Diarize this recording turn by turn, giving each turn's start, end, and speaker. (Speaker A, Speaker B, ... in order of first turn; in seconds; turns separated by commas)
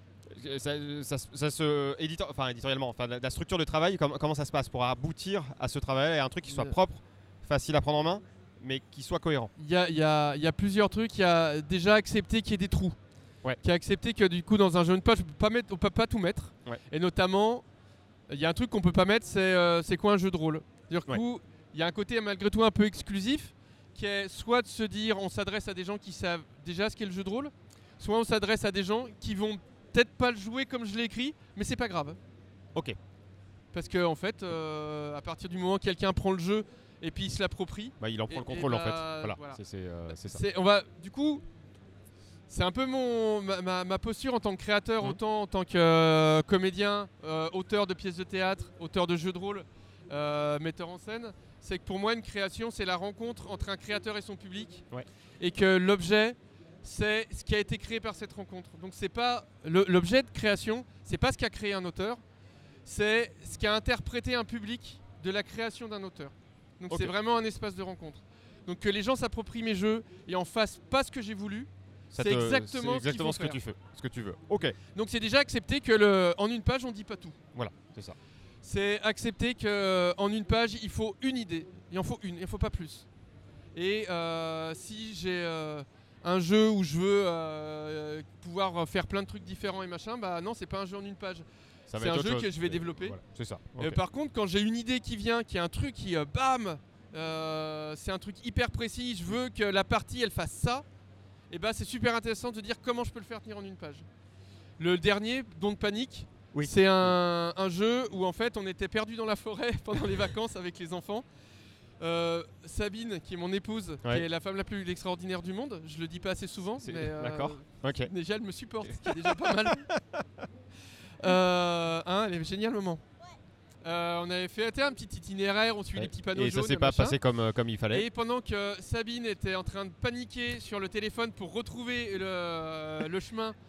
Speaker A: 0.3-9.5, Speaker B: 9.6-13.0, Speaker B: 13.6-17.6, Speaker B: 18.3-32.2, Speaker B: 33.7-39.6, Speaker A: 38.0-40.4, Speaker B: 40.1-41.4, Speaker B: 42.5-54.9, Speaker B: 55.4-62.2, Speaker B: 62.9-73.6, Speaker A: 72.1-74.8, Speaker B: 75.0-77.4, Speaker A: 77.5-78.2, Speaker B: 78.6-83.1, Speaker B: 83.8-91.5, Speaker A: 91.9-94.0, Speaker B: 92.0-93.2, Speaker B: 93.8-100.8, Speaker B: 101.5-104.1, Speaker B: 104.8-111.2, Speaker A: 106.5-107.1, Speaker B: 112.0-119.9, Speaker A: 116.8-118.1, Speaker A: 118.9-120.2, Speaker B: 121.2-123.0, Speaker B: 123.8-127.2, Speaker A: 126.0-128.1, Speaker B: 127.9-133.6